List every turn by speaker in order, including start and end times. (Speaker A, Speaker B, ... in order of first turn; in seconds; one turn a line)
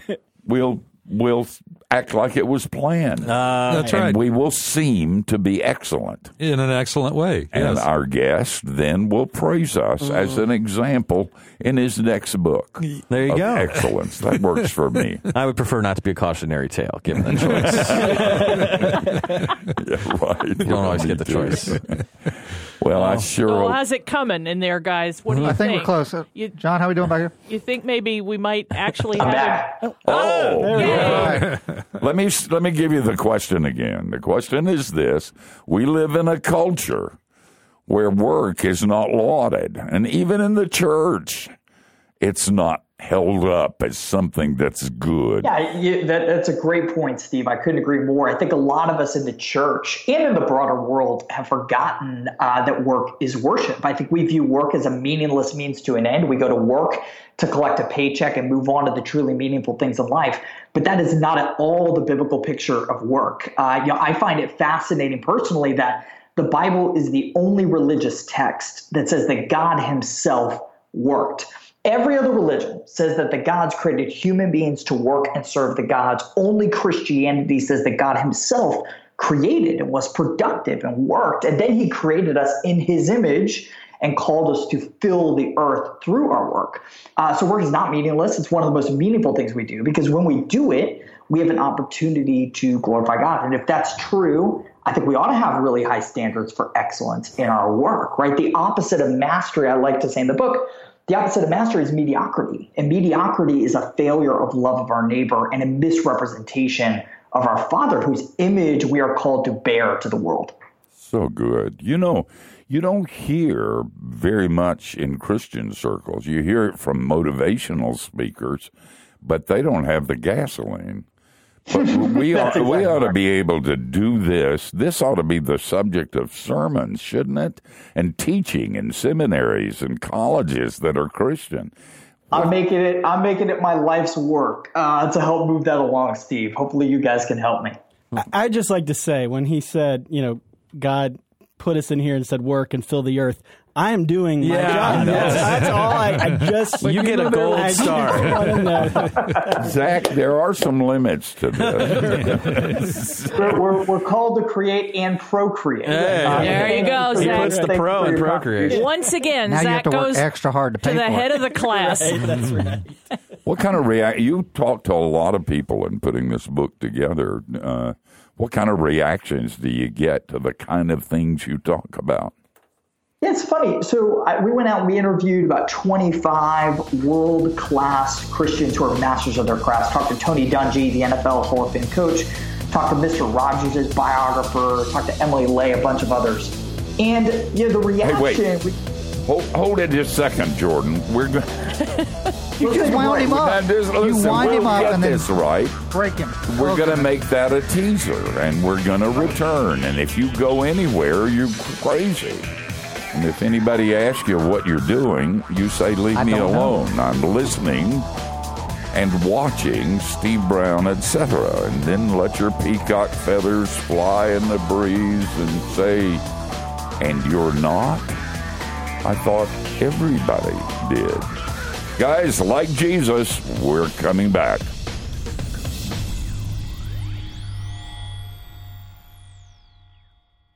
Speaker A: 0.4-6.3
Speaker B: 3.2-4.0
Speaker C: 3.7-4.2
Speaker C: 6.4-7.9
Speaker A: 7.5-15.2
Speaker B: 10.0-10.4
Speaker B: 12.8-13.9
Speaker B: 15.3-18.8
Speaker A: 17.3-18.9
Speaker A: 19.7-22.0
Speaker B: 20.6-21.8
Speaker A: 22.8-23.8
Speaker B: 22.9-23.3
Speaker D: 23.4-31.5
Speaker B: 25.3-25.6
Speaker E: 25.4-27.3
Speaker F: 29.1-29.9
Speaker A: 30.0-37.2
Speaker G: 30.3-31.4
Speaker E: 30.8-31.6
Speaker A: 37.9-41.5
Speaker A: 42.2-45.5
Speaker F: 45.4-110.5
Speaker A: 111.0-121.0
Speaker A: 121.7-131.7
Speaker F: 121.7-123.2
Speaker F: 132.3-137.8
Speaker G: 138.2-149.7
Speaker B: 144.4-145.8
Speaker C: 144.9-146.4
Speaker B: 146.8-148.8
Speaker A: 149.5-153.5
Speaker B: 151.6-152.0
Speaker F: 153.3-158.8
Speaker B: 155.8-158.8
Speaker G: 156.2-157.7
Speaker D: 156.2-157.6
Speaker D: 158.6-162.3
Speaker G: 158.7-159.1
Speaker E: 159.5-161.4
Speaker G: 161.5-162.9
Speaker A: 163.4-172.3
Speaker F: 173.2-188.7
Speaker A: 188.0-188.4
Speaker A: 189.2-191.9
Speaker F: 192.6-193.5
Speaker E: 192.6-195.3
Speaker A: 193.2-195.8
Speaker E: 195.8-197.1
Speaker A: 196.4-202.5
Speaker A: 203.1-208.1
Speaker E: 206.1-206.8
Speaker A: 208.9-216.2
Speaker A: 217.0-218.2
Speaker A: 219.0-221.3
Speaker A: 221.9-224.7